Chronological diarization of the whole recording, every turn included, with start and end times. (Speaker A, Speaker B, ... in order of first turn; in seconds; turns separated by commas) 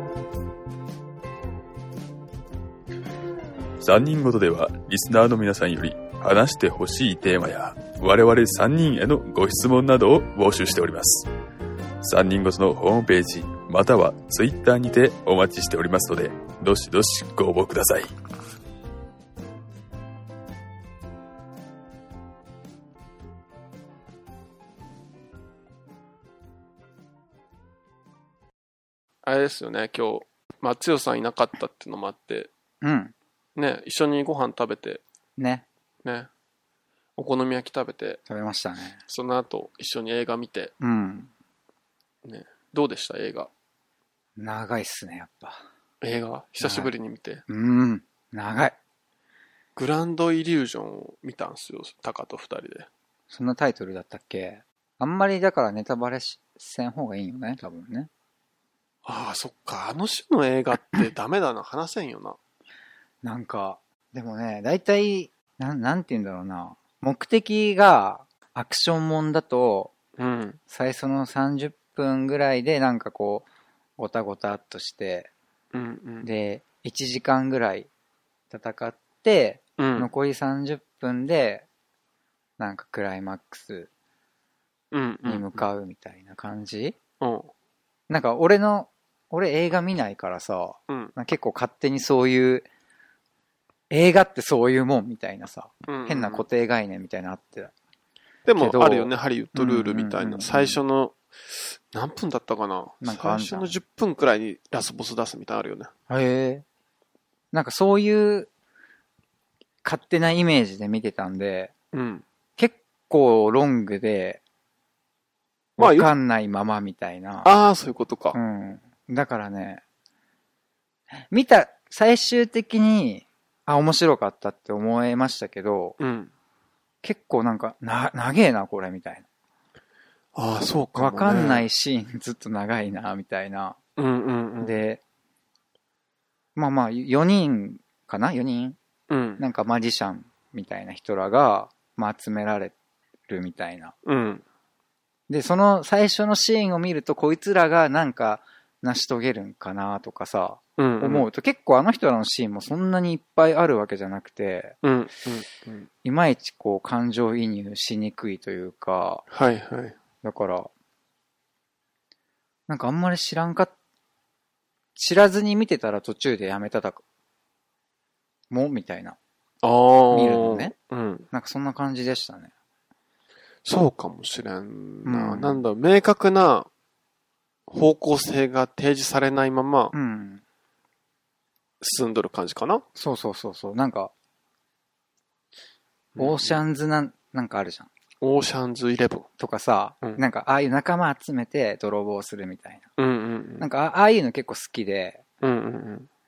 Speaker A: 3.8-11.3, Speaker A: 12.0-18.1, Speaker B: 29.2-32.5, Speaker C: 32.8-33.1, Speaker B: 33.6-35.0, Speaker C: 35.4-35.6, Speaker B: 36.0-36.3, Speaker B: 37.2-38.2, Speaker C: 38.3-39.0, Speaker B: 39.1-40.7, Speaker C: 40.8-41.3, Speaker B: 42.2-43.5, Speaker C: 44.4-45.6, Speaker B: 46.0-47.4, Speaker C: 46.6-46.9, Speaker C: 47.5-48.8, Speaker B: 49.8-52.9, Speaker C: 53.3-58.1, Speaker B: 59.0-62.4, Speaker C: 63.2-69.9, Speaker B: 70.2-70.6, Speaker C: 70.7-73.5, Speaker C: 74.0-75.3, Speaker B: 75.7-76.3, Speaker C: 76.2-77.9, Speaker C: 78.5-81.7, Speaker B: 79.8-80.1, Speaker C: 82.6-83.9, Speaker B: 84.9-85.6, Speaker C: 85.2-87.0, Speaker B: 87.2-87.5, Speaker C: 88.1-92.7, Speaker C: 93.9-97.7, Speaker B: 95.9-96.5, Speaker B: 98.5-105.9, Speaker C: 98.6-100.8, Speaker C: 103.0-103.7, Speaker C: 106.1-106.7, Speaker C: 107.5-108.5, Speaker C: 109.8-111.7, Speaker B: 111.9-112.2, Speaker C: 112.6-114.4, Speaker B: 115.8-116.1, Speaker C: 115.8-117.5, Speaker B: 117.4-118.4, Speaker C: 118.3-119.8, Speaker C: 121.3-126.0, Speaker B: 126.0-126.3, Speaker C: 127.0-129.3, Speaker B: 130.3-131.7, Speaker C: 131.0-133.8, Speaker B: 134.0-134.7, Speaker C: 134.6-135.0, Speaker C: 136.6-138.8, Speaker B: 139.1-139.4, Speaker C: 139.4-142.8, Speaker C: 143.3-143.9, Speaker B: 144.1-144.4, Speaker C: 145.3-154.8, Speaker B: 150.8-151.3, Speaker B: 154.8-155.9, Speaker C: 156.0-159.2, Speaker B: 159.3-160.0, Speaker C: 160.2-160.7, Speaker C: 162.7-163.7, Speaker C: 165.0-167.0, Speaker C: 168.5-169.2, Speaker B: 169.6-171.3, Speaker C: 170.1-170.7, Speaker C: 171.3-172.5, Speaker B: 173.7-176.7, Speaker C: 175.1-175.6, Speaker B: 177.7-179.9, Speaker C: 179.9-180.4, Speaker B: 181.8-182.8, Speaker C: 182.9-184.1, Speaker B: 186.2-186.6, Speaker C: 186.2-187.9, Speaker B: 188.2-189.3, Speaker C: 189.4-192.8, Speaker B: 193.0-193.7, Speaker C: 193.6-195.2, Speaker B: 195.4-196.1